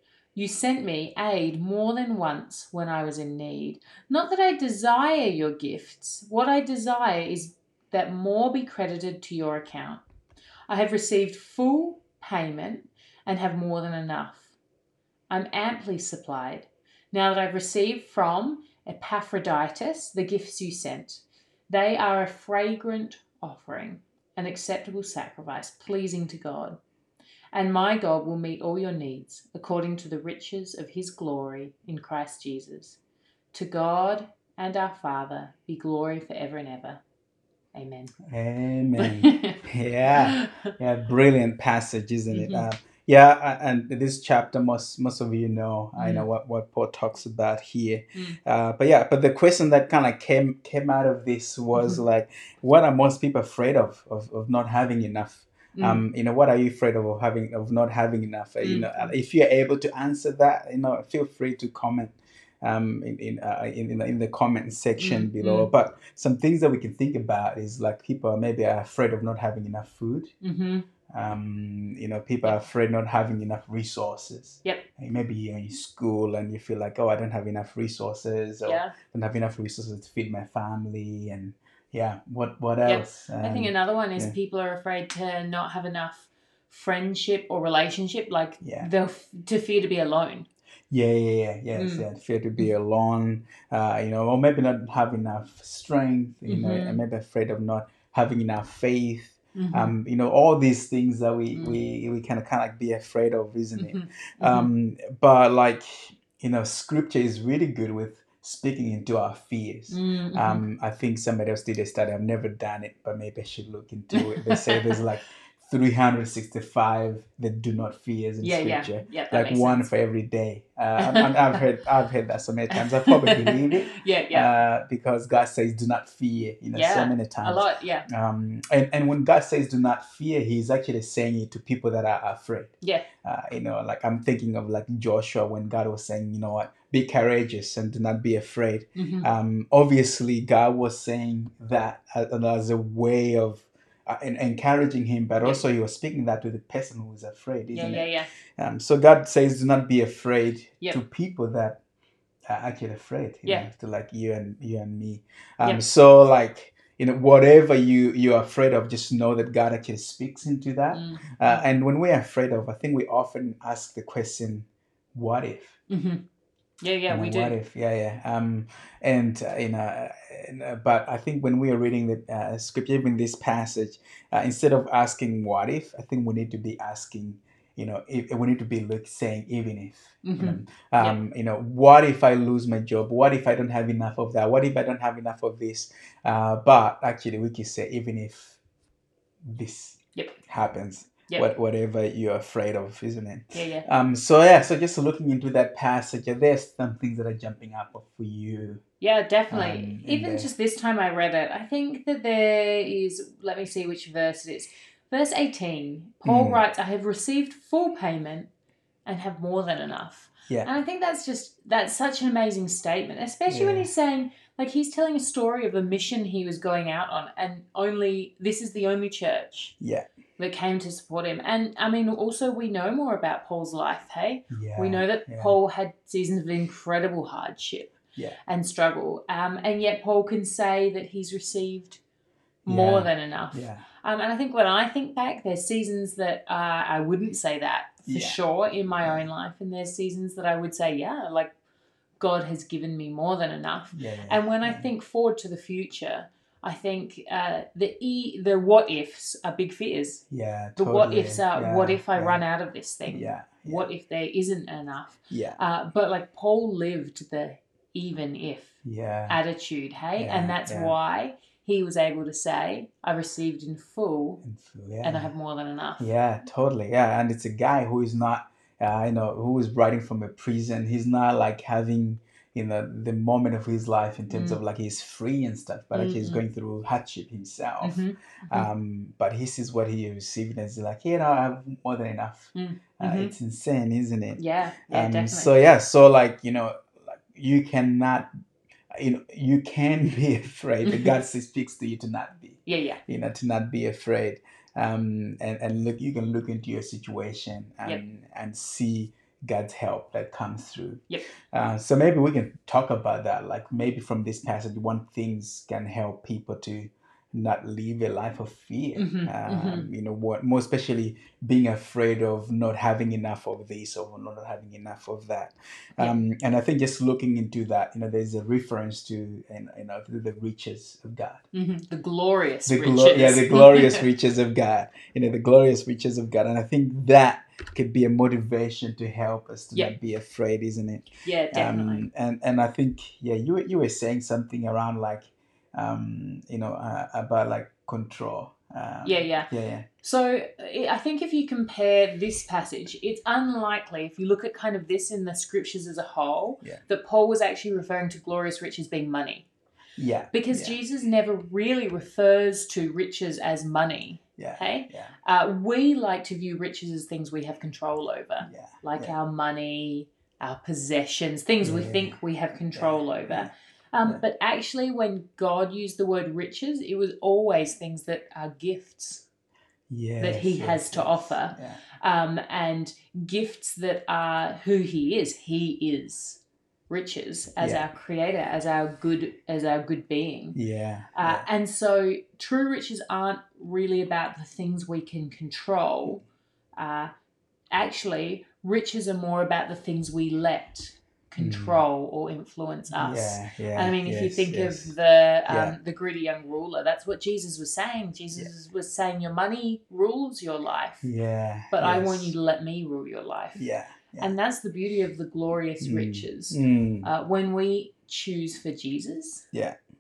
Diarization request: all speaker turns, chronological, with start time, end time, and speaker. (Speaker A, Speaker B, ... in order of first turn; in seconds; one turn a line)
Speaker A: 0.3-10.0
Speaker A: 10.7-14.5
Speaker A: 15.3-26.8
Speaker A: 27.5-33.0
Speaker A: 33.5-37.0
Speaker A: 37.7-38.1
Speaker B: 38.2-70.3
Speaker A: 39.0-40.7
Speaker A: 42.3-42.7
Speaker A: 46.0-46.3
Speaker A: 51.8-52.0
Speaker A: 55.8-56.0
Speaker A: 58.6-59.1
Speaker A: 65.0-65.7
Speaker A: 70.4-70.9
Speaker B: 71.1-84.3
Speaker A: 78.6-79.0
Speaker A: 82.8-90.5
Speaker B: 88.6-88.9
Speaker B: 90.9-151.8
Speaker A: 91.8-92.1
Speaker A: 96.5-97.0
Speaker A: 99.5-100.0
Speaker A: 101.5-101.8
Speaker A: 103.8-104.7
Speaker A: 109.9-110.6
Speaker A: 114.1-115.0
Speaker A: 118.4-119.8
Speaker A: 121.0-121.6
Speaker A: 122.7-124.5
Speaker A: 126.7-128.1
Speaker A: 132.8-133.1
Speaker A: 139.0-139.3
Speaker A: 147.7-148.3
Speaker B: 152.5-165.8
Speaker A: 160.9-161.7
Speaker A: 165.9-166.3
Speaker A: 166.8-167.6
Speaker B: 167.1-188.6
Speaker A: 180.2-181.2
Speaker B: 189.4-198.8
Speaker A: 193.5-193.9
Speaker A: 199.0-208.5
Speaker B: 199.5-200.5
Speaker B: 206.2-206.6
Speaker A: 209.1-219.7
Speaker B: 213.5-213.9
Speaker B: 219.8-220.1
Speaker A: 220.4-232.0
Speaker B: 224.5-225.6
Speaker B: 232.7-233.9
Speaker A: 232.7-241.5
Speaker B: 238.1-238.4
Speaker A: 242.2-250.2
Speaker B: 243.9-244.9
Speaker B: 250.3-252.4
Speaker A: 250.8-258.8
Speaker B: 253.1-253.9
Speaker B: 255.3-255.6
Speaker B: 258.8-259.4
Speaker A: 259.3-264.4
Speaker B: 260.2-260.9
Speaker B: 264.4-265.3
Speaker A: 265.0-266.1
Speaker B: 266.0-288.3
Speaker A: 274.3-274.6
Speaker A: 275.9-276.4
Speaker A: 277.8-278.7
Speaker A: 282.6-283.3
Speaker A: 284.4-285.6
Speaker B: 288.9-321.4
Speaker A: 290.9-291.1
Speaker A: 292.7-293.0
Speaker A: 309.0-309.9
Speaker A: 321.5-324.0
Speaker B: 322.7-339.9
Speaker A: 331.2-332.1
Speaker A: 339.0-339.5
Speaker A: 340.0-349.5
Speaker B: 350.0-350.8
Speaker A: 350.3-369.2
Speaker B: 354.4-355.1
Speaker B: 358.4-359.1
Speaker B: 361.6-362.2
Speaker B: 362.7-363.5
Speaker B: 369.9-371.8
Speaker A: 370.2-380.6
Speaker B: 377.6-377.9
Speaker B: 380.5-381.5
Speaker A: 381.2-386.2
Speaker A: 386.8-387.1
Speaker A: 387.7-401.1
Speaker B: 391.4-391.8
Speaker B: 392.9-394.9
Speaker B: 395.5-395.8
Speaker B: 401.0-402.3
Speaker A: 401.7-403.7
Speaker B: 403.6-404.3
Speaker A: 404.2-409.5
Speaker B: 405.8-407.1
Speaker B: 409.5-409.8